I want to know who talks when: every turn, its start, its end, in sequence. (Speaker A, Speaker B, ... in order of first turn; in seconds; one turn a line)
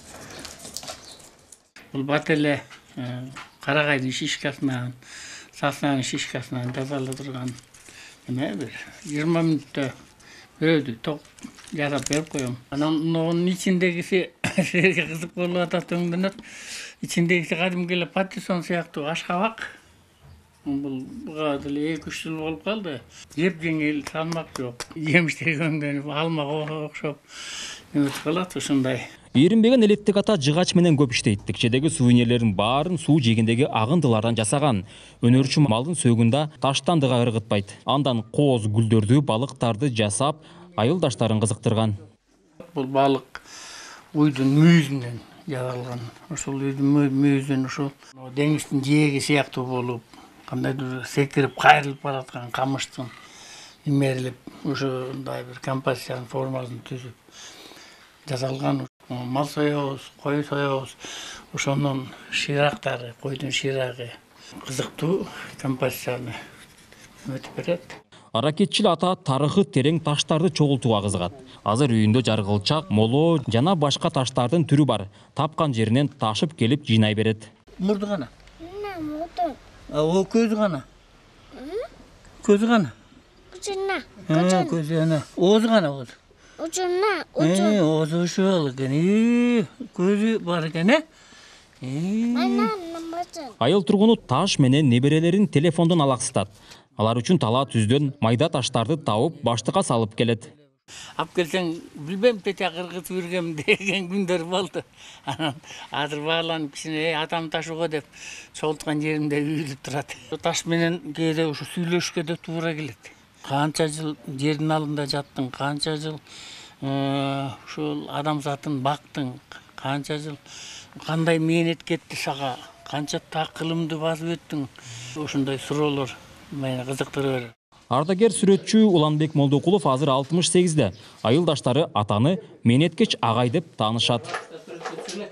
Speaker A: 1.9-5.0
Speaker A: 5.5-7.6
Speaker A: 8.3-9.9
Speaker A: 10.6-19.7
Speaker A: 20.6-27.2
Speaker A: 27.9-29.0
Speaker B: 29.4-42.0
Speaker A: 42.6-43.4
Speaker A: 44.1-53.1
Speaker A: 53.9-57.2
Speaker A: 58.3-61.0
Speaker A: 61.5-66.3
Speaker A: 67.2-68.0
Speaker B: 68.3-77.5
Speaker A: 77.8-78.3
Speaker C: 78.6-79.6
Speaker A: 79.9-80.8
Speaker C: 81.5-81.9
Speaker A: 82.4-82.9
Speaker C: 83.5-84.8
Speaker A: 84.2-86.2
Speaker C: 86.6-87.8
Speaker A: 87.4-91.0
Speaker A: 91.8-92.7
Speaker C: 92.3-93.5
Speaker B: 93.6-100.5
Speaker A: 101.2-116.2
Speaker A: 116.8-120.4
Speaker A: 121.0-127.5
Speaker B: 127.9-134.4